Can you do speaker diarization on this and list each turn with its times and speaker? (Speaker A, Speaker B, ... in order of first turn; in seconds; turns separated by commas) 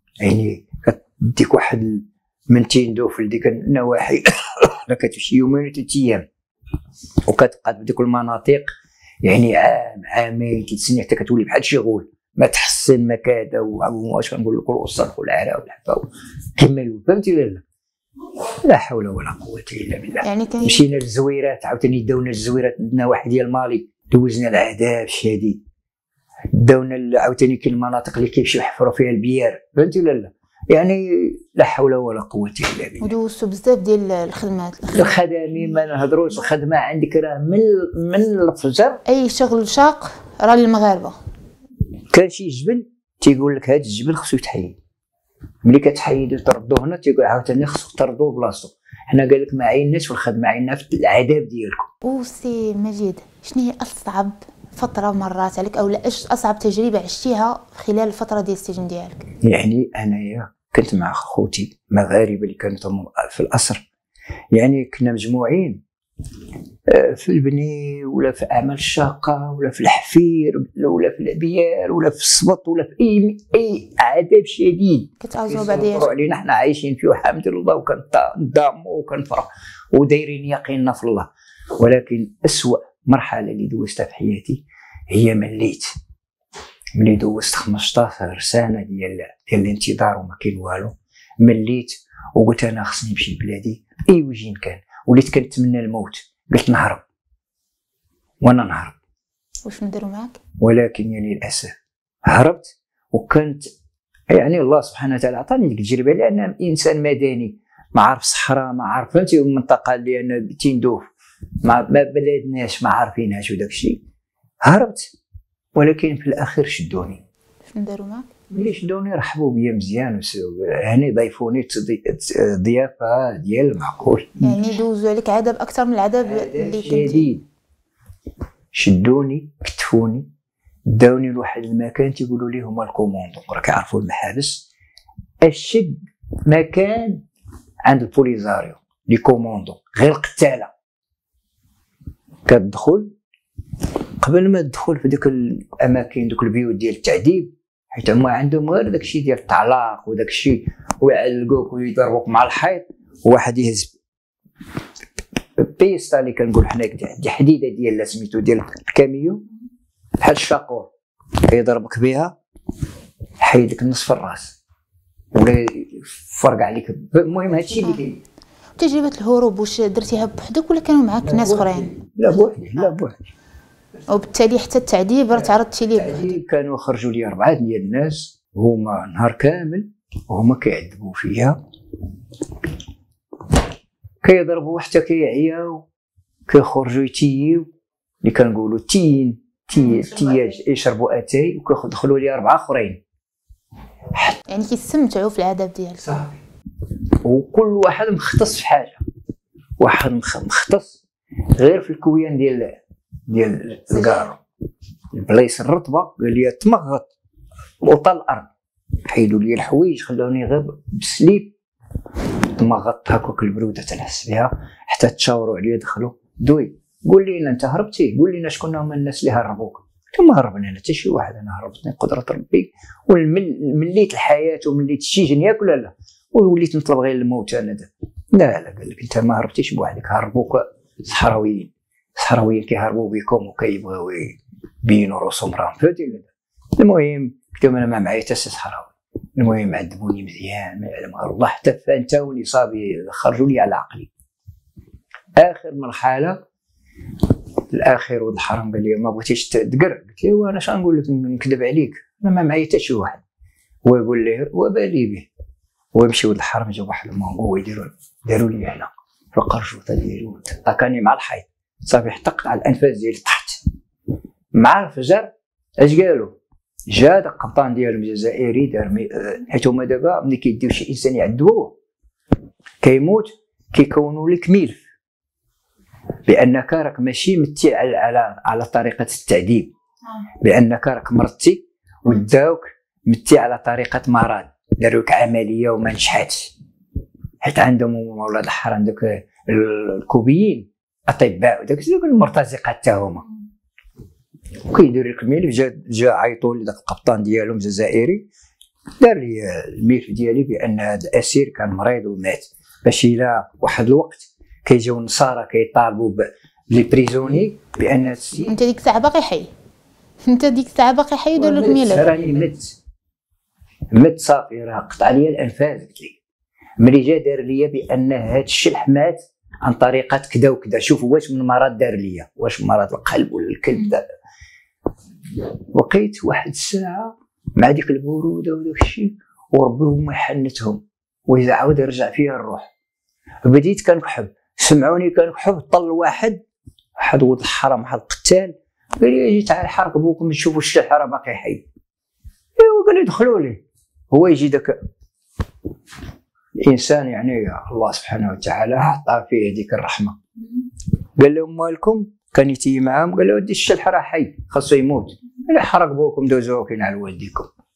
Speaker A: 0.2-6.3, Speaker A: 7.2-8.7, Speaker A: 9.2-17.6, Speaker A: 18.6-25.6, Speaker B: 20.2-20.8, Speaker A: 26.5-33.1, Speaker B: 33.0-35.3, Speaker A: 34.9-39.0, Speaker B: 39.0-41.1, Speaker A: 42.1-44.8, Speaker A: 45.6-51.9, Speaker B: 52.0-59.2, Speaker A: 59.4-63.9, Speaker A: 64.5-65.8, Speaker A: 66.9-85.9, Speaker B: 75.2-76.1, Speaker A: 87.0-97.0, Speaker A: 98.4-99.0, Speaker B: 99.6-100.4, Speaker A: 100.6-101.7, Speaker A: 102.2-103.7, Speaker A: 104.3-111.1, Speaker A: 111.6-114.0, Speaker A: 114.6-115.1, Speaker A: 115.7-117.2, Speaker B: 117.7-118.3, Speaker A: 118.5-124.5, Speaker B: 124.4-127.3, Speaker A: 126.2-127.5, Speaker A: 128.7-130.3, Speaker A: 130.8-134.7, Speaker A: 135.4-137.2, Speaker A: 137.8-140.7, Speaker A: 142.5-143.1, Speaker A: 144.2-153.9, Speaker A: 155.6-159.4, Speaker A: 160.2-160.9, Speaker A: 161.4-162.3, Speaker A: 163.4-164.6, Speaker A: 165.3-168.2, Speaker B: 168.8-171.9, Speaker A: 171.2-173.3, Speaker B: 174.1-176.3, Speaker A: 175.9-181.6, Speaker A: 184.2-185.8, Speaker A: 186.5-187.7, Speaker A: 188.2-193.0, Speaker B: 194.5-196.2, Speaker A: 197.2-199.0, Speaker A: 199.8-201.0, Speaker A: 201.6-204.4, Speaker B: 203.9-204.3, Speaker A: 205.1-207.1, Speaker A: 207.8-208.5, Speaker A: 209.1-211.5, Speaker A: 212.6-244.1, Speaker A: 245.3-246.4, Speaker A: 247.7-253.2, Speaker A: 253.8-255.3, Speaker A: 255.9-263.6, Speaker A: 264.5-266.4, Speaker A: 266.9-271.7, Speaker A: 272.8-274.8, Speaker A: 276.2-279.7, Speaker A: 280.4-286.5, Speaker A: 287.4-293.2, Speaker A: 294.7-298.3, Speaker A: 299.0-308.6, Speaker B: 308.5-309.5, Speaker B: 310.2-312.2, Speaker A: 311.4-312.8, Speaker A: 313.9-316.2, Speaker A: 316.8-324.0, Speaker A: 325.7-332.7, Speaker A: 333.4-336.4, Speaker A: 337.0-341.6, Speaker A: 342.6-344.8, Speaker A: 346.6-350.2, Speaker A: 351.2-357.5